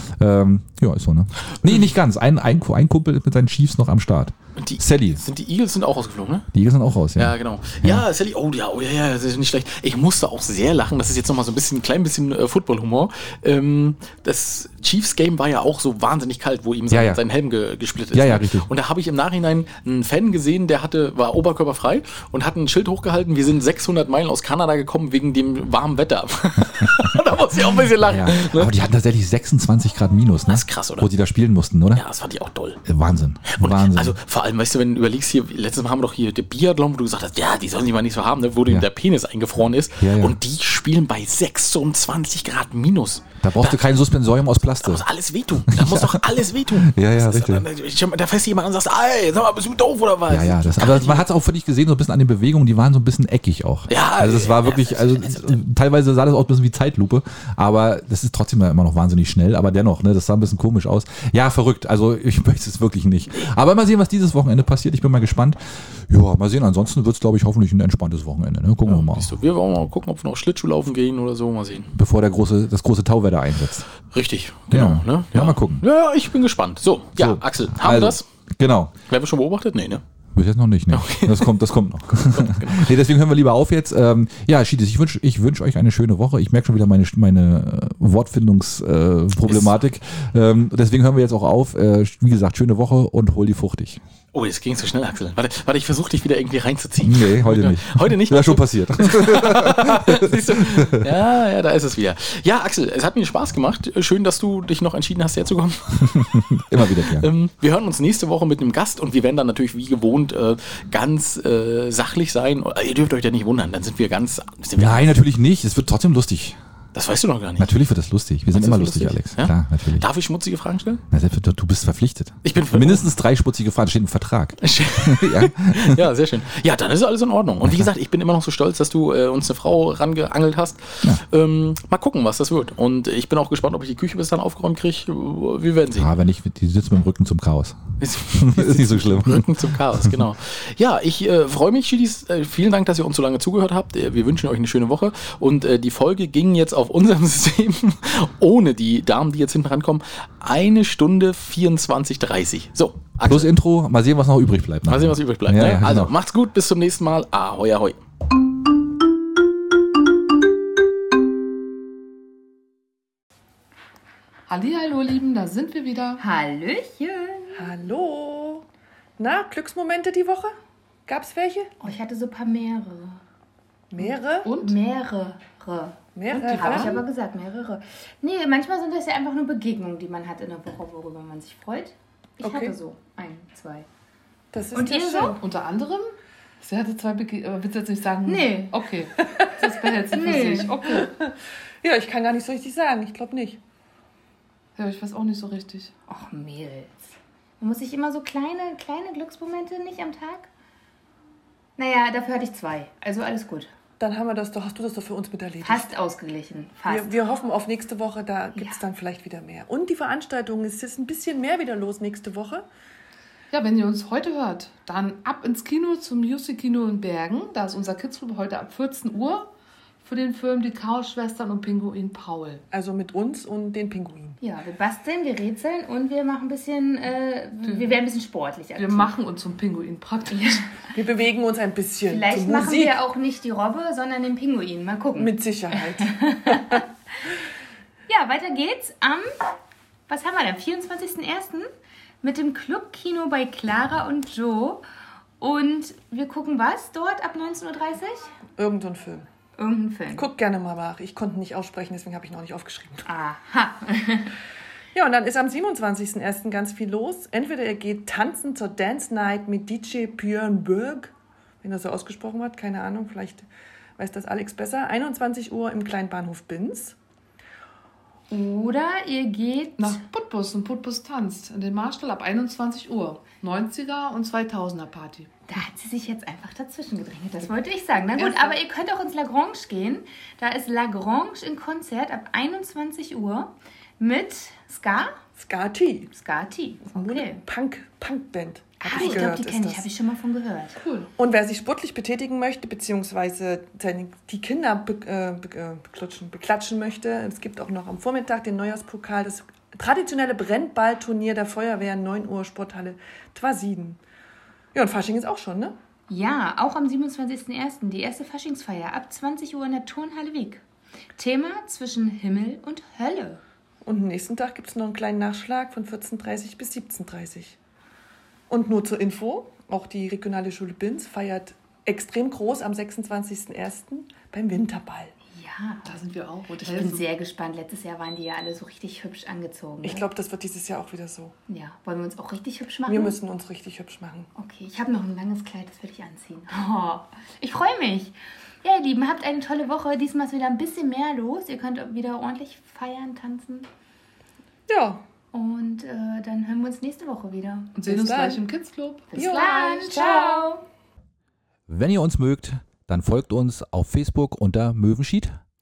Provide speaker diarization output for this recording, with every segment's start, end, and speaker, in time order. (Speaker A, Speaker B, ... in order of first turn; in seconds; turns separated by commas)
Speaker A: 0.2-5.2, Speaker B: 1.6-1.9, Speaker B: 4.5-6.5, Speaker A: 6.5-8.1, Speaker B: 7.2-28.7, Speaker A: 16.9-17.2, Speaker A: 18.1-18.7, Speaker A: 28.0-32.0, Speaker B: 30.5-31.1, Speaker B: 31.9-32.8, Speaker A: 32.8-34.1, Speaker B: 33.4-43.9, Speaker A: 40.0-40.4, Speaker A: 43.4-45.0, Speaker B: 44.7-51.3, Speaker A: 45.7-47.7, Speaker A: 50.3-69.3, Speaker B: 53.9-55.6, Speaker B: 68.8-71.9, Speaker A: 71.9-73.9, Speaker B: 74.1-78.2, Speaker A: 74.7-75.8, Speaker A: 77.2-78.9, Speaker B: 79.1-80.0, Speaker A: 80.3-94.0, Speaker B: 80.9-81.5, Speaker B: 82.2-82.9, Speaker B: 89.4-89.8, Speaker B: 94.3-115.1, Speaker A: 97.0-101.1, Speaker A: 106.0-107.3, Speaker A: 114.8-116.6, Speaker B: 116.9-117.7, Speaker A: 117.6-120.0, Speaker B: 118.5-121.0, Speaker A: 121.1-126.0, Speaker B: 122.4-123.0, Speaker B: 124.6-136.1, Speaker A: 127.6-127.9, Speaker A: 135.9-137.8, Speaker B: 138.0-153.5, Speaker A: 138.3-140.2, Speaker A: 153.2-156.1, Speaker B: 154.9-158.0, Speaker C: 164.5-166.2, Speaker D: 166.2-167.7, Speaker E: 167.5-168.6, Speaker E: 169.2-170.5, Speaker E: 171.1-171.7, Speaker D: 171.8-173.2, Speaker E: 173.9-174.5, Speaker C: 174.4-174.8, Speaker D: 174.6-183.9, Speaker E: 176.1-177.0, Speaker C: 176.3-177.0, Speaker E: 182.4-182.8, Speaker E: 184.5-185.4, Speaker D: 184.7-185.4, Speaker C: 185.4-186.1, Speaker C: 186.6-191.1, Speaker D: 188.2-188.8, Speaker D: 190.1-191.1, Speaker E: 190.9-193.6, Speaker C: 194.8-195.9, Speaker D: 196.1-197.1, Speaker D: 197.6-200.5, Speaker D: 201.8-203.7, Speaker E: 204.0-205.9, Speaker D: 205.6-207.2, Speaker E: 206.8-212.6, Speaker C: 213.5-219.5, Speaker C: 220.0-222.6, Speaker E: 222.7-224.4, Speaker D: 224.4-229.1, Speaker C: 227.7-227.9, Speaker C: 228.7-230.7, Speaker D: 230.3-230.7, Speaker E: 230.9-233.0, Speaker D: 232.0-236.8, Speaker E: 235.2-236.8, Speaker D: 238.1-239.3, Speaker D: 240.1-241.7, Speaker D: 242.2-244.8, Speaker D: 245.4-248.3, Speaker E: 248.6-249.3, Speaker D: 249.6-250.3, Speaker E: 250.1-253.1, Speaker D: 253.1-254.3, Speaker E: 254.9-263.4, Speaker E: 264.0-266.9, Speaker D: 268.3-270.0, Speaker C: 269.8-275.3, Speaker D: 275.5-285.2, Speaker C: 278.1-278.6, Speaker E: 285.4-286.1, Speaker D: 286.1-287.4, Speaker E: 286.9-289.9, Speaker D: 288.8-290.7, Speaker C: 288.9-289.3, Speaker C: 290.8-291.1, Speaker E: 291.2-304.0, Speaker E: 304.7-305.7, Speaker D: 306.1-310.6, Speaker D: 311.1-313.4, Speaker E: 313.8-317.6, Speaker E: 318.5-325.1, Speaker D: 325.3-325.9, Speaker C: 325.8-327.1, Speaker D: 326.6-330.1, Speaker E: 329.8-331.3, Speaker D: 331.5-333.2, Speaker E: 332.9-334.3, Speaker D: 334.4-343.7, Speaker E: 344.7-345.0, Speaker D: 345.3-347.8, Speaker C: 347.7-349.2, Speaker E: 347.9-348.4, Speaker D: 349.1-350.6, Speaker E: 349.1-350.4, Speaker A: 351.7-355.4